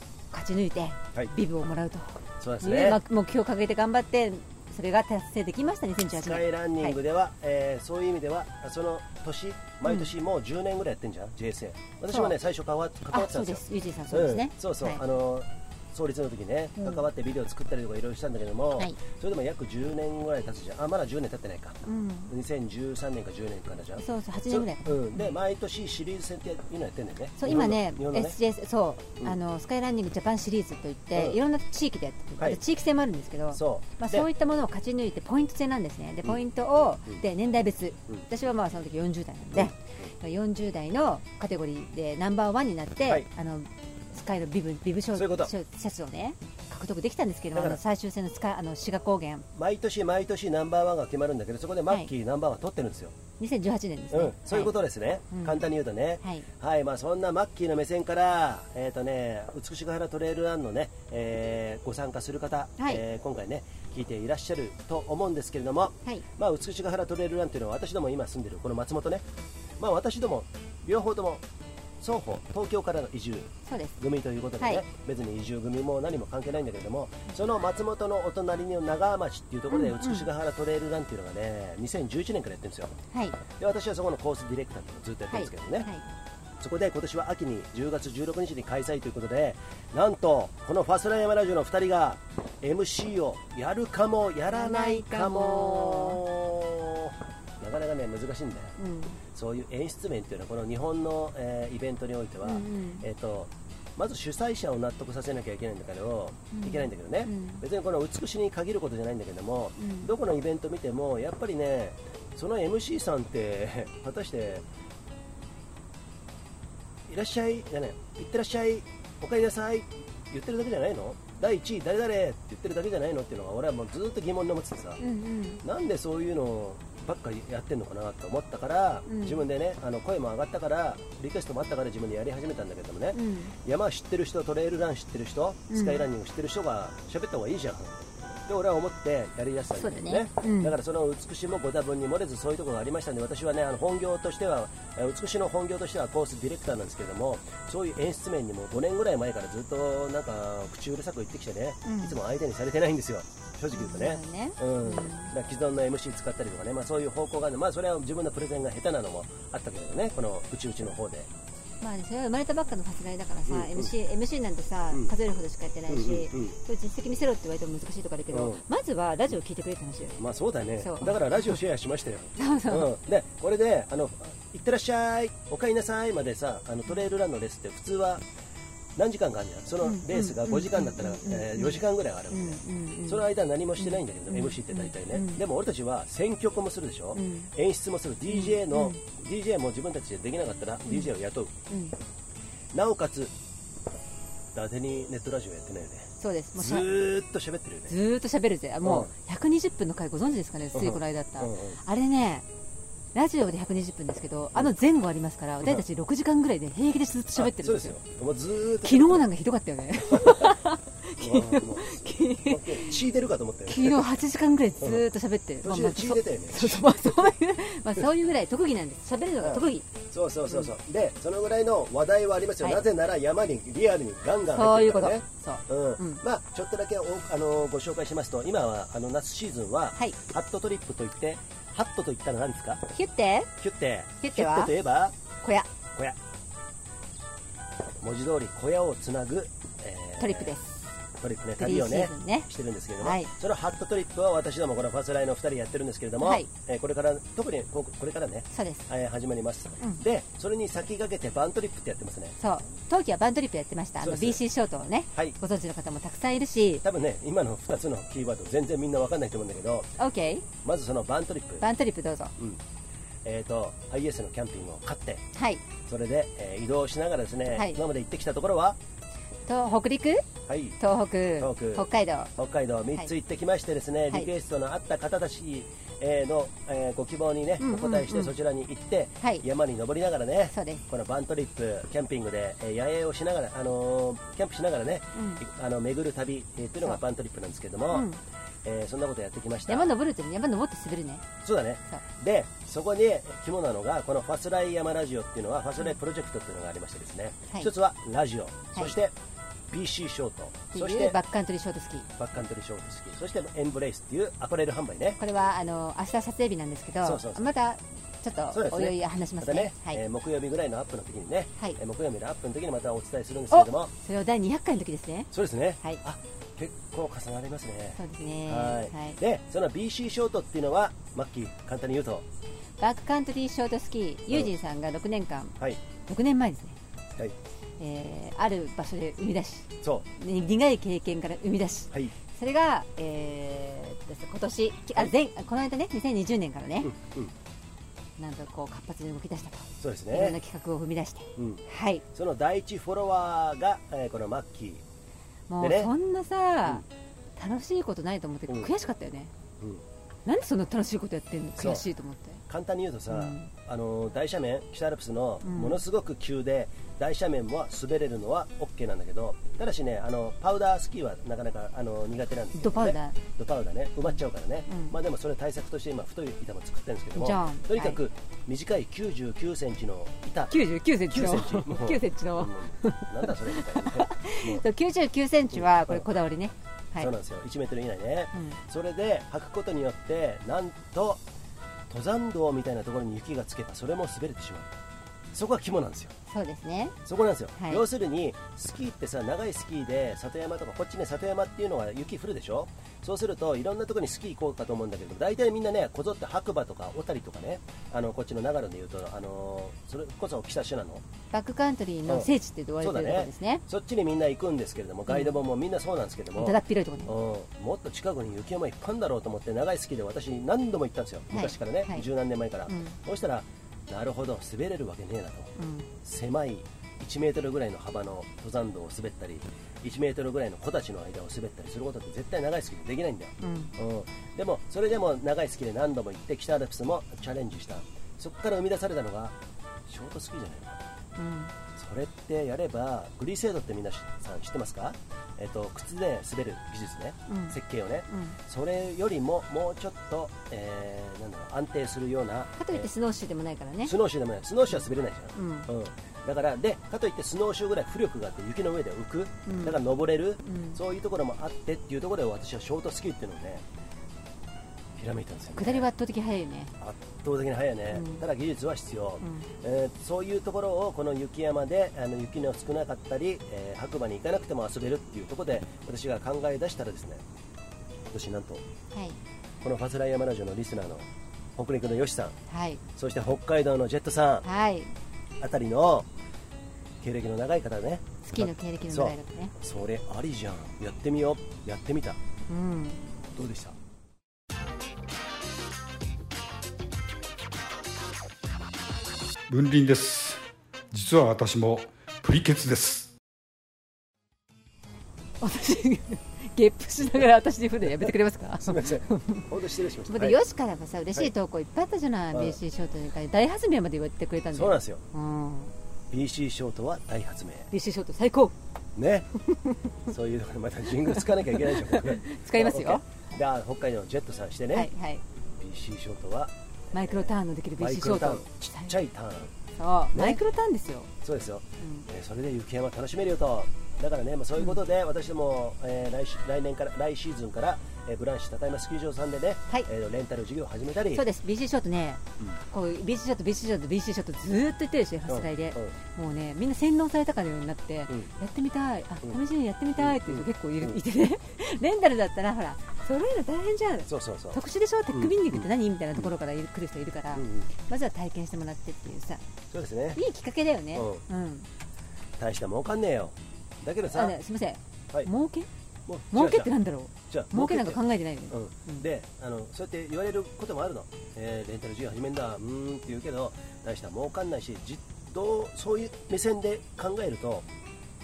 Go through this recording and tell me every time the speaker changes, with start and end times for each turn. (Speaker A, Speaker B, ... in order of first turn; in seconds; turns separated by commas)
Speaker A: 0.3-7.0, Speaker B: 2.4-3.0, Speaker B: 6.2-28.4, Speaker A: 9.8-10.1, Speaker A: 13.1-15.0, Speaker A: 16.8-17.1, Speaker A: 21.8-22.3, Speaker A: 24.0-25.3, Speaker A: 27.4-49.5, Speaker B: 31.1-31.4, Speaker B: 33.5-34.3, Speaker B: 39.5-40.1, Speaker B: 45.1-45.5, Speaker B: 47.5-47.8, Speaker B: 49.5-53.1, Speaker A: 53.4-54.7, Speaker B: 54.1-69.3, Speaker A: 55.3-55.6, Speaker A: 62.8-63.0, Speaker B: 69.8-71.4, Speaker B: 72.0-83.0, Speaker A: 73.7-74.0, Speaker A: 79.7-80.3, Speaker A: 83.1-83.4, Speaker B: 83.5-85.9, Speaker A: 85.3-86.0, Speaker B: 86.6-98.8, Speaker A: 94.5-96.2, Speaker A: 98.8-99.2, Speaker B: 99.3-114.7, Speaker A: 102.4-103.0, Speaker A: 106.5-107.6, Speaker A: 109.8-110.1, Speaker B: 117.1-125.0, Speaker A: 125.0-125.6, Speaker B: 125.6-161.3, Speaker A: 129.1-129.4, Speaker A: 133.1-133.5, Speaker A: 135.7-136.1, Speaker A: 139.8-140.8, Speaker A: 151.8-152.2, Speaker A: 153.7-155.3, Speaker A: 161.8-170.2, Speaker B: 163.5-163.9, Speaker B: 165.9-166.6, Speaker B: 168.3-168.6, Speaker B: 170.2-178.2, Speaker A: 170.8-171.6, Speaker A: 172.4-172.9, Speaker B: 179.0-191.6, Speaker A: 179.8-183.3, Speaker A: 183.8-185.4, Speaker A: 187.1-187.5, Speaker A: 188.3-189.0, Speaker A: 191.7-192.0, Speaker B: 192.7-193.3, Speaker B: 194.5-198.0, Speaker A: 196.2-196.9, Speaker A: 197.9-202.5, Speaker B: 198.8-199.1, Speaker B: 200.7-201.8, Speaker A: 203.1-208.0, Speaker B: 207.4-209.2, Speaker A: 208.8-213.0, Speaker B: 210.1-210.5, Speaker B: 211.2-214.1, Speaker A: 213.7-219.9, Speaker B: 215.6-217.2, Speaker B: 219.4-232.8, Speaker A: 224.5-226.2, Speaker A: 232.9-233.5, Speaker B: 233.6-235.2, Speaker A: 234.2-234.7, Speaker A: 235.4-235.7, Speaker B: 238.0-240.6, Speaker A: 240.2-240.8, Speaker B: 241.2-252.4, Speaker A: 241.6-243.3, Speaker A: 246.2-246.5, Speaker A: 248.5-248.9, Speaker A: 252.4-256.8, Speaker B: 254.0-254.4, Speaker B: 256.8-259.9, Speaker A: 260.0-260.5, Speaker B: 260.6-261.6, Speaker A: 261.6-262.3, Speaker B: 263.2-265.2, Speaker A: 265.3-265.6, Speaker B: 265.9-268.8, Speaker A: 267.5-267.8, Speaker A: 269.5-270.3, Speaker B: 270.5-270.8, Speaker A: 270.8-272.3, Speaker B: 271.4-288.1, Speaker A: 277.6-278.4, Speaker A: 280.5-280.8, Speaker A: 285.1-285.4, Speaker A: 287.9-288.2, Speaker B: 288.6-289.9, Speaker A: 289.7-291.3, Speaker B: 291.4-299.1, Speaker B: 299.7-301.2, Speaker A: 300.7-302.1, Speaker B: 302.2-305.2, Speaker A: 305.2-310.0, Speaker B: 307.0-307.4, Speaker B: 308.5-313.9, Speaker A: 313.5-315.3, Speaker B: 315.3-322.3, Speaker A: 318.0-319.2, Speaker A: 322.8-326.8, Speaker A: 327.8-336.9, Speaker B: 336.8-337.3, Speaker A: 338.2-342.0, Speaker B: 339.8-340.4, Speaker B: 341.4-344.8, Speaker A: 345.5-346.8, Speaker B: 345.6-345.9, Speaker A: 347.4-349.3, Speaker A: 350.3-352.4, Speaker B: 351.6-351.9, Speaker B: 352.5-374.6, Speaker A: 353.1-353.5, Speaker A: 355.4-355.8, Speaker A: 362.6-363.2, Speaker A: 364.7-365.0, Speaker A: 367.1-368.0, Speaker A: 370.5-377.1, Speaker B: 375.5-376.1, Speaker B: 377.0-381.2, Speaker B: 381.9-384.8, Speaker B: 385.3-386.1, Speaker A: 386.3-387.0, Speaker B: 387.1-401.0, Speaker A: 387.6-387.9, Speaker A: 401.3-403.6, Speaker B: 402.1-429.4, Speaker A: 405.1-405.4, Speaker A: 406.4-407.1, Speaker A: 411.3-412.1, Speaker A: 412.7-412.9, Speaker A: 415.6-415.9, Speaker A: 423.4-423.7, Speaker B: 429.9-430.8, Speaker A: 431.2-431.5, Speaker B: 431.8-442.9, Speaker A: 437.3-437.6, Speaker A: 438.1-438.4, Speaker A: 442.6-444.0, Speaker B: 443.8-453.6, Speaker A: 445.3-445.7, Speaker A: 449.5-449.8, Speaker A: 450.4-450.8, Speaker B: 455.0-455.9, Speaker A: 455.6-456.7, Speaker B: 456.8-467.2, Speaker A: 457.9-458.2, Speaker B: 468.1-468.6, Speaker A: 468.9-469.2, Speaker B: 469.6-472.4, Speaker A: 472.5-472.8, Speaker B: 473.0-474.5, Speaker A: 474.4-474.9, Speaker B: 475.4-476.1, Speaker B: 477.0-482.2, Speaker A: 478.2-479.5, Speaker A: 482.5-483.1, Speaker B: 483.4-483.8, Speaker C: 489.5-490.4, Speaker C: 490.9-493.1, Speaker A: 495.4-499.5, Speaker B: 498.6-500.4, Speaker A: 500.1-505.8, Speaker B: 502.3-502.6, Speaker B: 504.5-505.0, Speaker B: 506.1-507.7, Speaker A: 507.7-508.6, Speaker B: 509.0-509.3, Speaker A: 509.4-509.8, Speaker B: 510.1-514.9, Speaker A: 511.1-513.0, Speaker A: 514.7-515.2, Speaker B: 515.5-519.5, Speaker A: 516.9-519.0, Speaker A: 519.8-521.1, Speaker B: 520.1-520.4, Speaker B: 521.2-531.2, Speaker A: 521.8-522.1, Speaker A: 531.1-549.4, Speaker B: 535.3-536.0, Speaker B: 540.0-541.0, Speaker B: 544.1-544.6, Speaker B: 545.1-545.7, Speaker B: 547.4-547.7, Speaker B: 549.7-550.2, Speaker A: 550.1-551.7, Speaker B: 550.9-551.2, Speaker B: 552.4-554.4, Speaker A: 554.1-555.7, Speaker B: 556.1-556.7, Speaker A: 556.3-559.0, Speaker B: 557.3-567.7